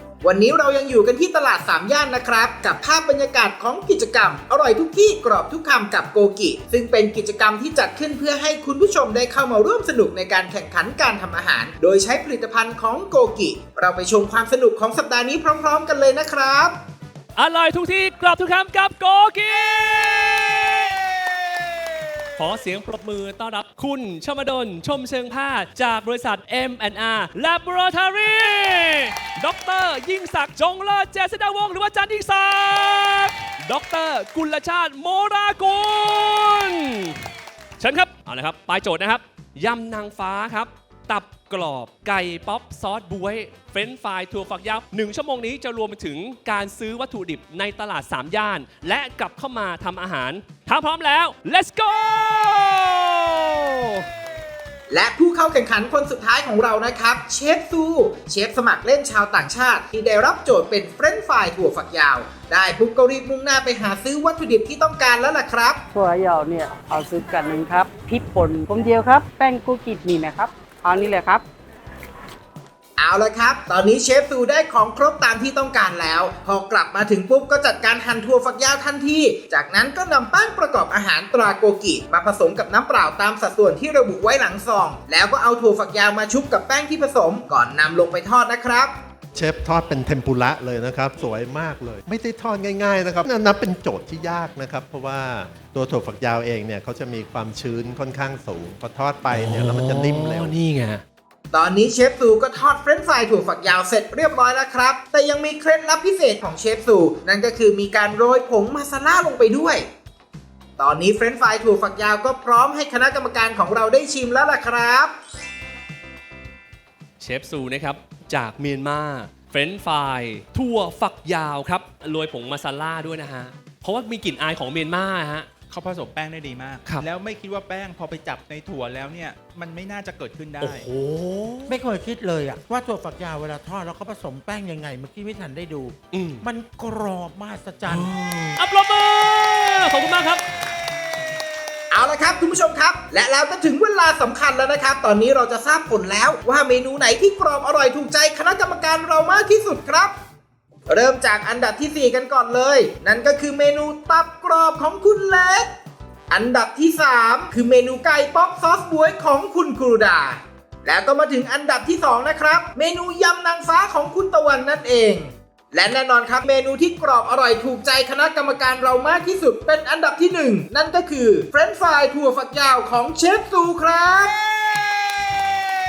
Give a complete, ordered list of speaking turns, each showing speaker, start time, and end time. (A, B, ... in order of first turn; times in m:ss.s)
0:00.2-0:16.8 A
0:17.4-0:21.3 B
0:22.4-0:37.2 B
0:37.8-0:53.7 B
0:54.9-1:05.8 A
1:05.9-1:11.4 C
1:13.0-1:28.9 A
1:29.3-1:40.6 D
1:39.3-1:41.0 B
1:41.5-1:49.8 A
1:50.8-1:55.1 A
1:57.2-2:05.5 B
2:05.7-2:10.9 E
2:10.6-2:11.8 B
2:11.7-2:18.6 F
2:16.1-2:16.4 B
2:17.9-2:20.4 B
2:21.9-2:30.1 A
2:30.9-2:35.7 A
2:36.3-2:54.4 A
2:54.6-2:55.4 B